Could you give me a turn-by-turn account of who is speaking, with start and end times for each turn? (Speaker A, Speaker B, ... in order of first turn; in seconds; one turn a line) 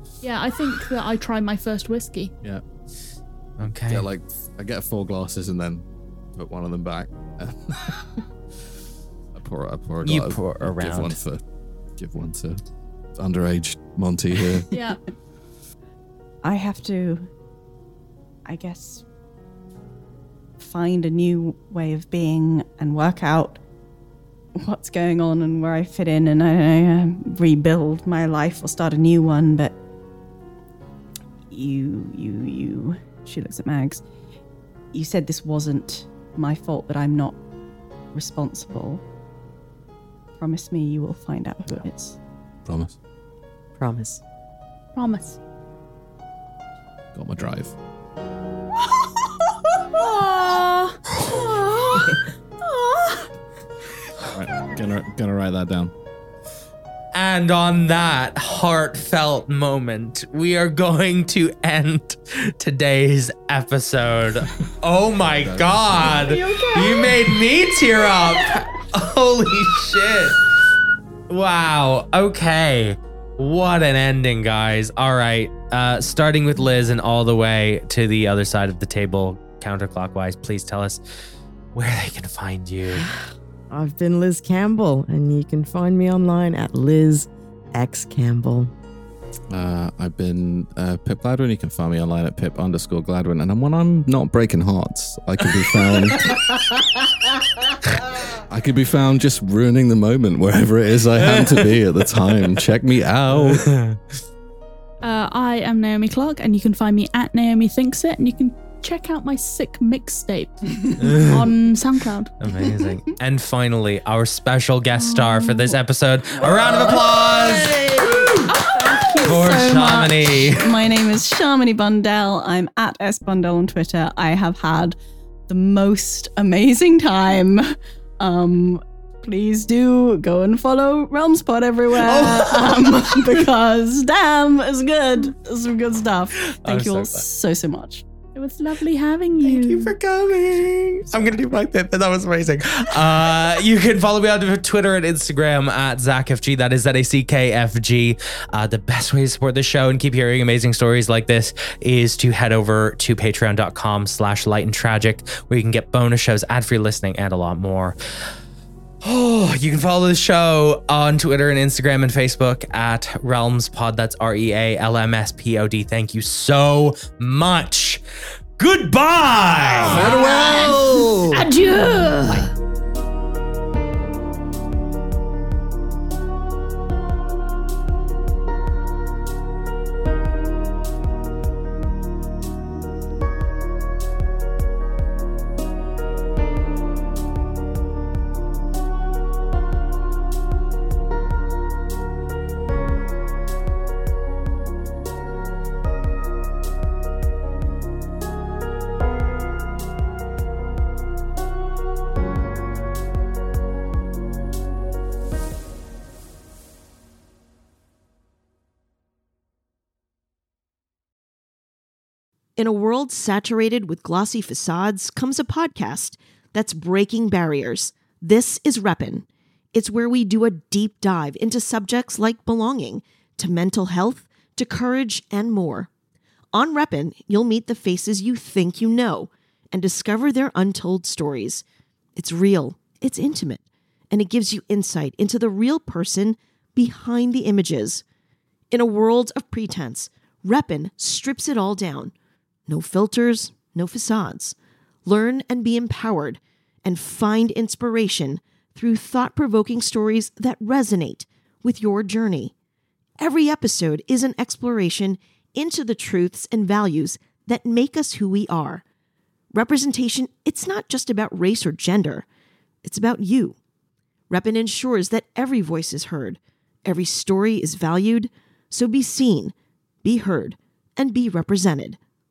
Speaker A: 0.2-2.3
Speaker B: 3.6-4.1
Speaker C: 3.9-8.3
Speaker C: 9.3-11.4
Speaker B: 10.0-11.2
Speaker C: 12.0-12.6
Speaker C: 13.2-14.7
Speaker A: 14.7-15.0
Speaker D: 16.4-17.3
Speaker D: 18.4-19.0
Speaker D: 20.6-23.6
Speaker D: 24.6-29.8
Speaker D: 31.5-34.0
Speaker D: 34.9-37.4
Speaker D: 38.1-39.0
Speaker D: 40.4-42.2
Speaker C: 42.6-43.0
Speaker E: 43.8-44.2
Speaker A: 44.9-45.4
Speaker C: 47.1-47.7
Speaker A: 49.9-53.3
Speaker C: 54.2-55.9
Speaker B: 57.1-70.4
Speaker C: 65.3-66.4
Speaker A: 66.3-67.0
Speaker B: 71.3-81.0
Speaker B: 81.7-83.1
Speaker E: 82.9-88.7
Speaker C: 89.5-96.6
Speaker C: 98.4-103.8
Speaker B: 101.2-102.6
Speaker B: 103.3-104.0
Speaker A: 105.0-112.3
Speaker B: 111.0-111.4
Speaker B: 112.4-118.2
Speaker D: 115.3-115.7
Speaker D: 116.9-125.0
Speaker A: 118.5-119.6
Speaker B: 119.2-120.7
Speaker D: 125.5-138.0
Speaker B: 132.0-133.0
Speaker B: 136.4-137.2
Speaker A: 138.3-139.9
Speaker B: 139.5-157.9
Speaker B: 159.0-168.0
Speaker B: 168.6-170.0
Speaker E: 169.9-171.5
Speaker A: 169.9-172.5
Speaker F: 212.6-225.9
Speaker F: 226.5-231.6
Speaker F: 232.2-238.0
Speaker F: 238.7-242.1
Speaker F: 242.7-252.5
Speaker F: 253.2-258.8
Speaker F: 259.5-262.2
Speaker F: 262.8-263.6
Speaker F: 264.3-272.0